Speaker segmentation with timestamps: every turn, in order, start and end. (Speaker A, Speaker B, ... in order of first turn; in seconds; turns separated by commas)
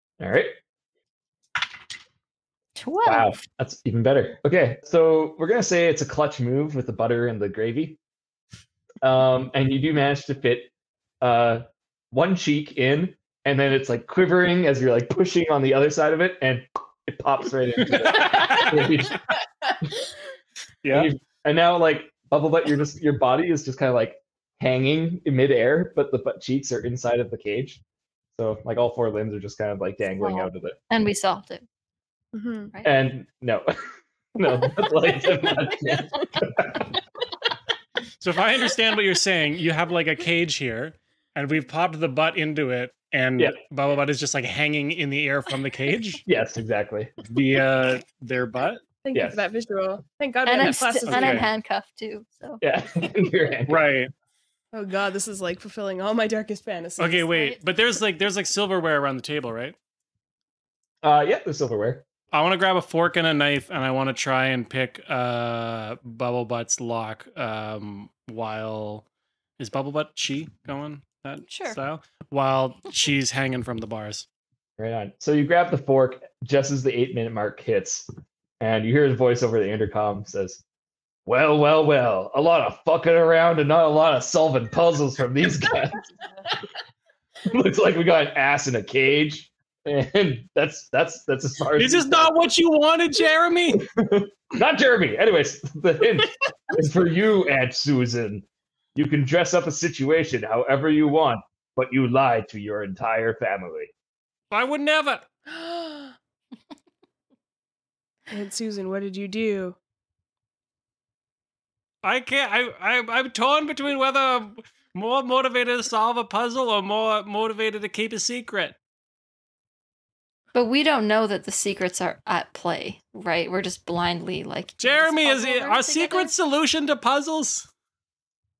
Speaker A: 0.2-0.6, Speaker B: 2.8-3.3, Speaker A: 3.0-8.0, Speaker A: 9.0-19.2, Speaker C: 17.8-18.9, Speaker C: 20.8-21.1, Speaker A: 20.9-27.8, Speaker A: 28.4-30.8, Speaker B: 30.1-31.6, Speaker D: 32.3-32.7, Speaker A: 32.8-33.7, Speaker A: 34.3-36.9, Speaker C: 38.2-46.2, Speaker A: 46.2-47.1, Speaker C: 47.2-48.8, Speaker D: 49.0-51.5, Speaker A: 49.1-49.4, Speaker B: 50.4-52.6, Speaker C: 51.0-51.5, Speaker A: 52.6-53.8, Speaker C: 53.7-54.1, Speaker D: 54.7-57.3, Speaker C: 57.0-59.7, Speaker B: 57.3-57.6, Speaker A: 61.0-62.0, Speaker C: 62.3-69.0, Speaker C: 69.6-74.2, Speaker B: 71.5-71.8, Speaker A: 74.8-78.1, Speaker A: 78.6-80.6, Speaker A: 81.2-86.1, Speaker A: 87.4-92.3, Speaker C: 91.8-93.8, Speaker A: 93.8-103.9, Speaker C: 104.5-105.2, Speaker D: 105.5-106.1, Speaker D: 108.3-109.8, Speaker C: 112.0-118.8, Speaker B: 120.5-126.3, Speaker C: 124.8-127.7